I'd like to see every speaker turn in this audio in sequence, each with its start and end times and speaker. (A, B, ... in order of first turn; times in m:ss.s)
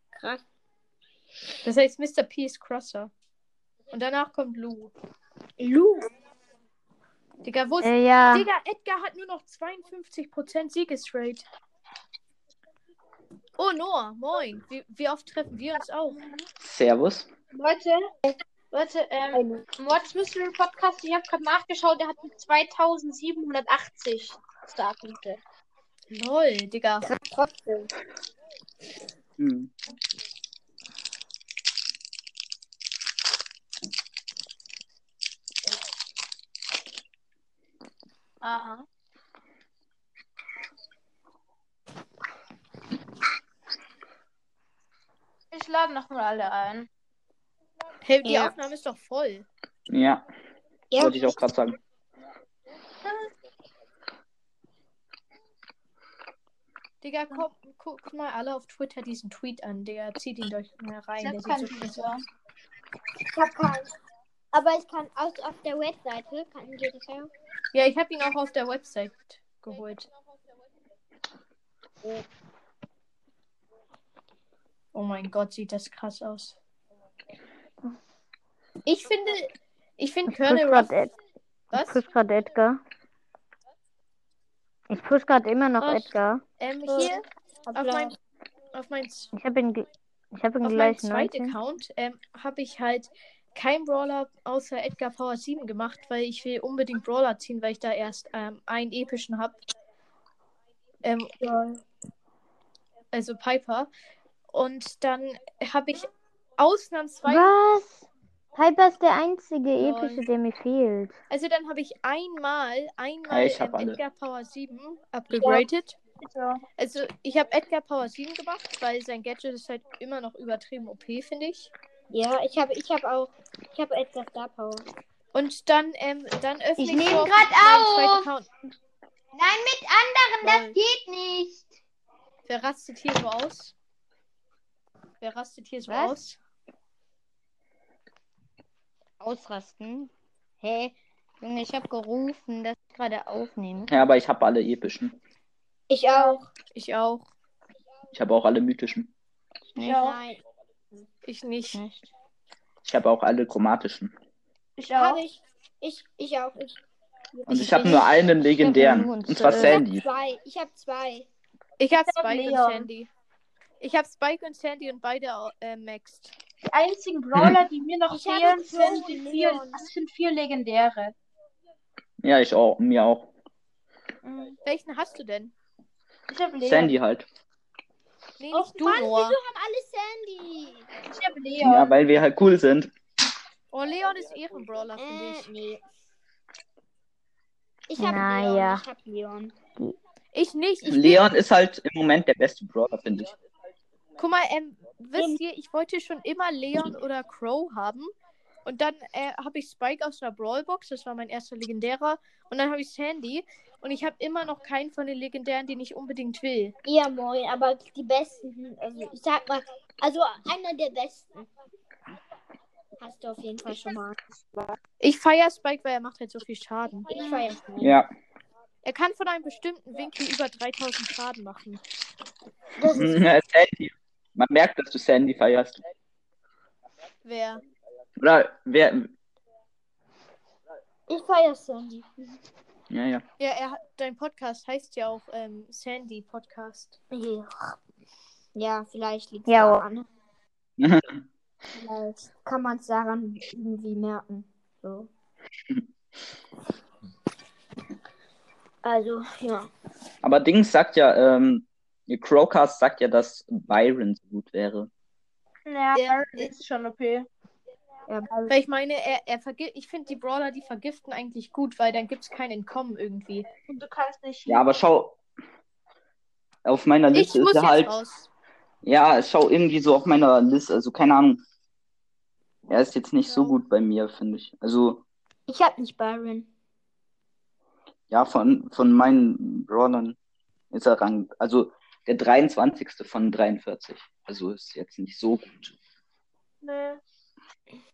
0:00.2-0:00.4 A
0:01.6-0:03.1 B
0:03.9-0:04.9 B
0:05.6-0:06.1 A
0:07.4-0:11.4 B
0:07.8-0:08.5 C
0:13.6-0:16.2 B
0:16.6-0:17.3 D
0:17.5-0:18.1 E
0:18.7-0:25.4 E
0:19.3-0:19.6 A
0:26.1-0:27.1 B
0:27.0-0:27.9 A
0:29.4-0:29.7 D
0:38.4-0:38.8 E
0:45.5-0:46.9 E
0:48.0-0:49.5 B
0:48.2-0:48.5 A
0:49.9-0:50.2 D
0:50.9-0:51.4 A
0:51.0-0:51.8 D
0:57.0-1:02.1 B
1:01.2-1:02.2 E
1:03.3-1:03.9 A
1:04.5-1:07.3 A
1:07.7-1:10.1 B
1:14.9-1:16.6 B
1:18.8-1:20.9 B
1:20.2-1:21.1 C
1:21.7-1:22.0 B
1:21.7-1:22.8 C
1:24.9-1:26.4 C
1:26.6-1:28.1 B
1:26.8-1:27.2 E
1:27.7-1:28.1 E
1:28.7-1:29.3 B
1:29.4-1:31.6 C
1:30.6-1:39.5 B
1:41.0-1:41.3 B
1:41.4-1:41.8 A
1:43.1-1:43.9 B
1:44.5-1:47.5 B
1:47.2-1:48.0 C
1:48.6-1:51.1 C
1:49.8-1:50.2 B
1:51.3-1:56.0 B
1:53.3-1:54.0 D
1:55.4-1:55.6 E
1:56.2-1:56.6 E
1:56.8-2:01.7 B
2:02.1-2:04.8 A
2:05.3-2:08.5 B
2:07.0-2:08.2 A
2:09.4-2:11.5 A
2:10.4-2:10.8 B
2:10.4-2:10.8 C
2:12.5-2:13.7 B
2:15.2-2:16.4 B
2:15.9-2:16.2 C
2:19.2-2:20.1 C
2:20.6-2:23.9 C
2:23.9-2:25.2 D
2:25.9-2:26.4 A
2:26.1-2:26.4 E
2:26.8-2:27.3 B
2:28.1-2:29.1 D
2:29.8-2:30.0 C
2:29.8-2:30.2 E
2:29.9-2:30.4 A
2:31.2-2:31.8 B
2:31.7-2:32.0 C
2:32.8-2:34.1 D
2:34.8-2:35.2 E
2:34.9-2:36.8 A
2:37.4-2:38.0 A
2:37.5-2:40.1 D
2:37.5-2:39.8 C
2:39.6-2:41.3 A
2:41.8-2:43.1 B
2:42.0-2:42.9 E
2:43.8-2:46.4 B
2:46.7-2:51.2 E
2:48.1-2:49.9 A
2:52.2-2:53.3 D
2:54.2-2:54.6 E
2:54.6-2:55.5 B
2:56.3-2:56.9 E
2:56.6-2:57.2 D
2:58.4-2:59.4 B
2:58.5-3:00.9 A
3:01.0-3:01.9 E
3:01.6-3:02.9 D
3:03.7-3:05.5 B
3:05.0-3:05.8 A
3:07.9-3:09.5 A
3:08.0-3:08.8 C
3:10.3-3:11.3 B
3:10.8-3:13.3 D
3:14.2-3:18.1 B
3:18.6-3:26.8 B
3:26.8-3:31.5 A
3:33.0-3:34.2 A
3:34.4-3:34.8 E
3:35.0-3:37.2 B
3:37.1-3:38.0 A
3:37.8-3:38.1 D
3:38.8-3:41.8 B
3:42.8-3:43.2 A
3:42.9-3:45.8 D
3:47.2-3:47.6 B
3:48.2-3:49.1 D
3:51.1-3:52.1 A
3:52.9-3:53.2 D
3:53.4-3:57.0 B
3:57.1-3:57.8 A
3:58.5-4:00.1 A
3:59.5-3:59.8 C
4:00.8-4:01.2 D
4:01.7-4:05.1 A
4:08.8-4:09.7 A
4:10.2-4:14.9 D
4:15.7-4:17.3 E
4:16.0-4:16.5 A
4:18.1-4:18.6 A
4:18.5-4:23.5 B
4:23.7-4:24.6 E
4:24.5-4:25.2 D
4:26.6-4:28.0 D
4:27.1-4:28.3 B
4:28.8-4:31.4 D
4:32.7-4:35.0 D
4:35.5-4:36.5 A
4:38.1-4:40.2 D
4:40.7-4:45.8 D
4:46.6-4:47.0 E